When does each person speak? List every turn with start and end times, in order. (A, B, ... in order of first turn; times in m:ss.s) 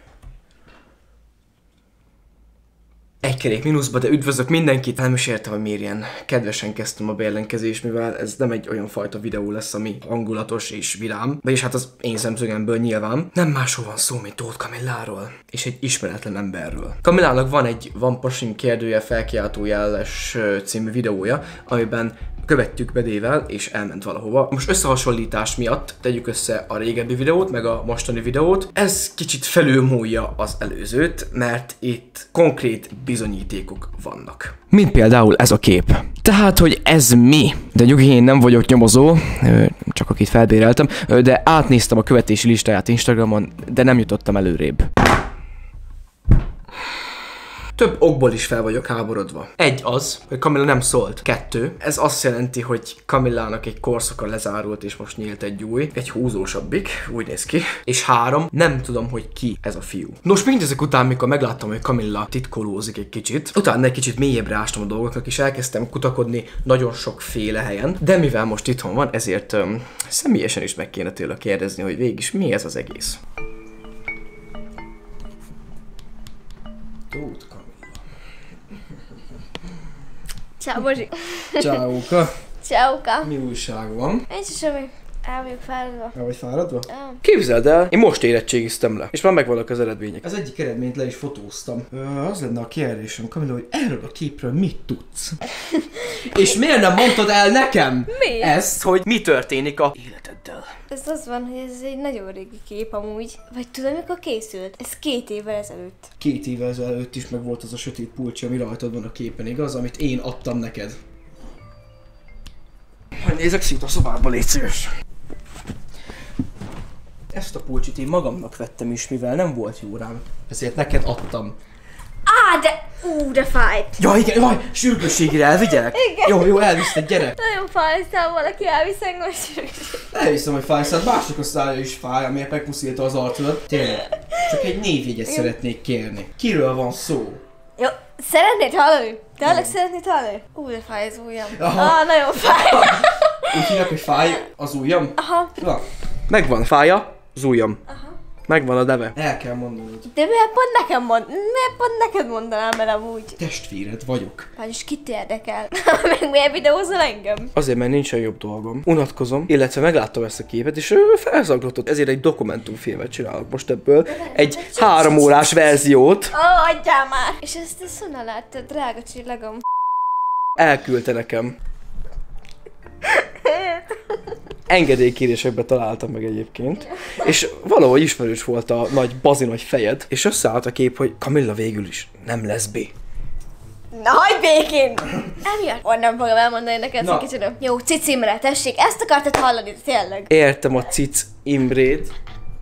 0:03.2-0:44.9 A
0:47.7-1:13.2 A
1:17.1-1:18.0 A
1:20.6-1:21.9 B
1:21.6-1:22.4 A
1:22.6-1:23.3 B
1:23.2-1:24.3 A
1:24.3-1:26.1 B
1:26.1-1:35.4 A
1:26.9-1:27.2 B
1:36.0-1:40.7 A
1:38.1-1:38.5 B
1:40.9-1:46.1 B
1:46.2-1:51.0 A
1:53.2-1:54.9 A
1:57.3-2:01.6 A
2:02.2-2:04.0 B
2:04.0-2:07.4 A
2:05.8-2:10.0 B
2:10.1-2:17.4 A
2:13.8-2:14.6 B
2:15.3-2:15.5 B
2:17.8-2:23.9 B
2:19.4-2:19.8 A
2:21.5-2:27.8 A
2:25.2-2:25.6 B
2:27.9-2:28.1 B
2:28.5-2:30.1 A
2:30.1-2:33.4 B
2:33.4-2:34.5 A
2:34.6-2:37.5 B
2:37.5-2:46.3 A
2:44.1-2:45.4 B
2:46.3-2:49.6 B
2:50.6-2:51.5 A
2:53.2-2:53.8 B
2:54.7-3:02.9 A
3:03.9-3:10.3 B
3:07.0-3:07.3 A
3:10.3-3:12.1 A